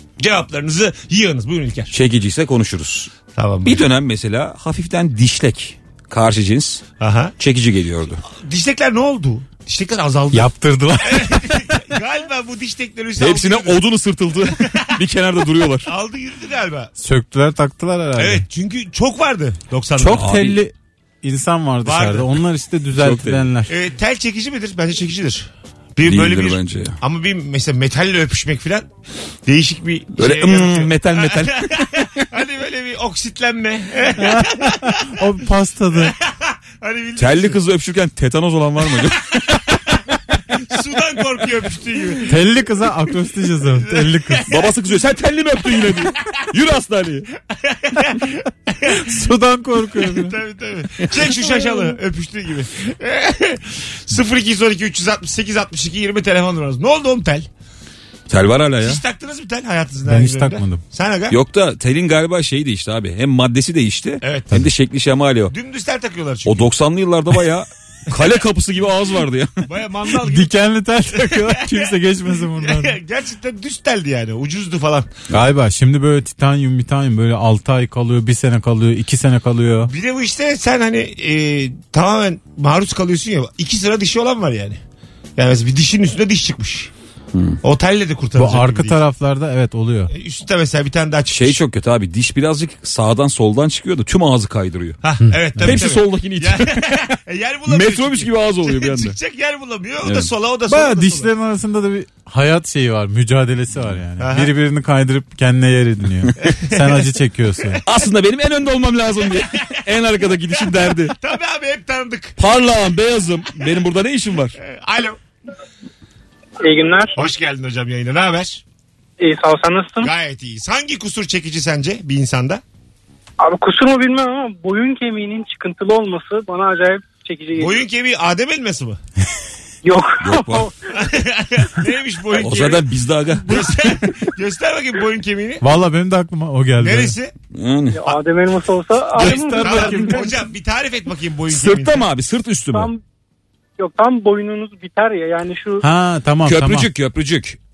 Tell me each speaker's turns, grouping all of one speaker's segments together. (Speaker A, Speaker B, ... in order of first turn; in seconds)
Speaker A: 0.2-1.9, 3.3-3.8, 7.0-7.3, 8.3-13.8, 14.4-14.9, 15.8-16.9, 18.2-20.3, 21.8-22.4, 23.7-28.9, 29.4-35.2, 35.9-37.6, 40.6-42.4, 43.6-44.7, 47.5-49.0, 49.9-57.5, 58.8-61.4, 64.2-64.6, 65.5-66.7, 69.7-70.5, 71.1-71.9, 72.5-75.1, 79.8-84.8, 85.4-86.9, 87.6-89.0, 90.1-91.6, 95.0-101.3, 104.2-104.5, 106.4-107.1, 111.1-112.4, 114.6-115.2, 117.2-118.6, 120.0-122.6, 127.6-129.0, 130.9-132.8, 133.4-135.7, 136.8-137.3, 139.2-142.0
Speaker B: 1.9-3.1, 3.6-6.8, 7.4-8.2, 13.2-15.9, 20.2-20.6, 23.0-23.4, 26.0-27.0, 30.2-32.3, 37.2-39.8, 44.5-47.3, 58.3-59.0, 61.3-65.5, 66.4-69.5, 87.3-87.6, 91.3-95.0, 95.6-97.2, 97.7-99.2, 100.0-100.3, 107.8-111.2, 112.4-114.6, 130.2-130.7, 132.4-133.8, 137.5-138.0, 141.5-142.9, 146.4-147.6
Speaker C: 10.3-11.4, 17.0-18.4, 20.0-23.7, 34.2-36.1, 42.3-44.5, 48.9-50.4, 60.0-60.8, 70.2-73.0, 75.3-79.9, 88.4-90.1, 95.2-95.8, 100.7-107.8, 135.6-137.1, 139.2-140.4, 145.8-146.9
Speaker D: 116.6-117.1, 119.2-120.1, 123.4-127.8, 129.8-130.7, 137.9-140.2, 142.7-143.0, 143.8-145.8